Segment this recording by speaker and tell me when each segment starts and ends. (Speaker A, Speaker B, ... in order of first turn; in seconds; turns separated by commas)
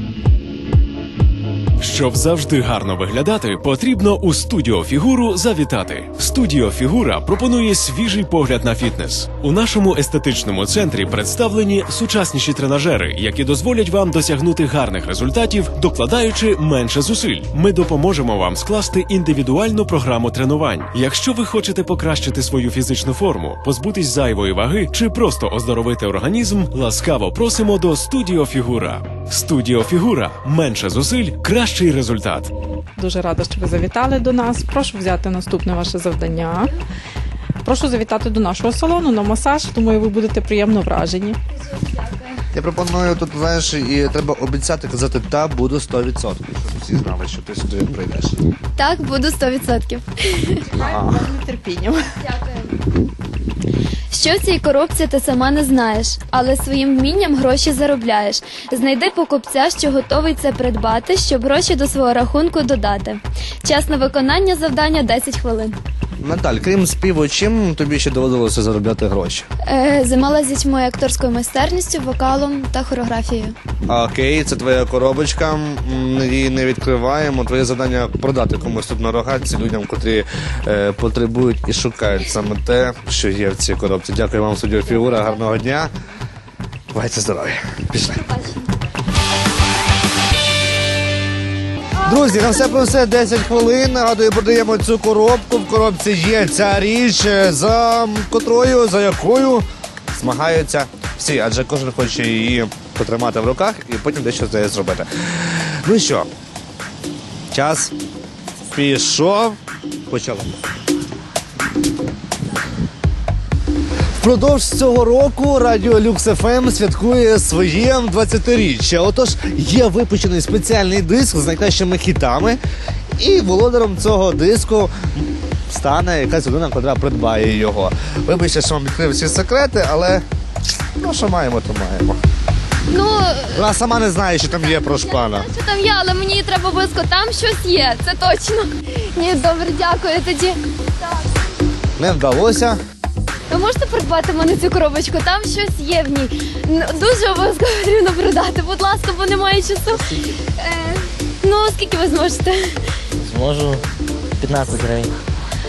Speaker A: 1.8-32.5, Speaker B: 33.0-36.7, Speaker B: 37.6-41.4, Speaker C: 41.5-42.4, Speaker D: 42.5-48.4, Speaker C: 48.8-50.7, Speaker B: 50.7-52.1, Speaker D: 50.8-51.2, Speaker C: 52.2-52.8, Speaker C: 54.1-65.7, Speaker D: 66.2-69.5, Speaker C: 69.7-73.5, Speaker D: 73.9-85.9, Speaker D: 86.9-88.2, Speaker C: 88.1-88.7, Speaker D: 92.0-106.3, Speaker D: 107.5-107.9, Speaker D: 108.7-110.5, Speaker D: 114.2-122.6, Speaker D: 123.2-130.2, Speaker D: 131.0-132.2, Speaker C: 132.9-133.7, Speaker D: 133.5-135.5, Speaker C: 134.5-141.2, Speaker D: 142.0-142.8, Speaker C: 143.5-152.8, Speaker E: 149.9-150.4, Speaker E: 153.2-153.8, Speaker E: 154.4-155.1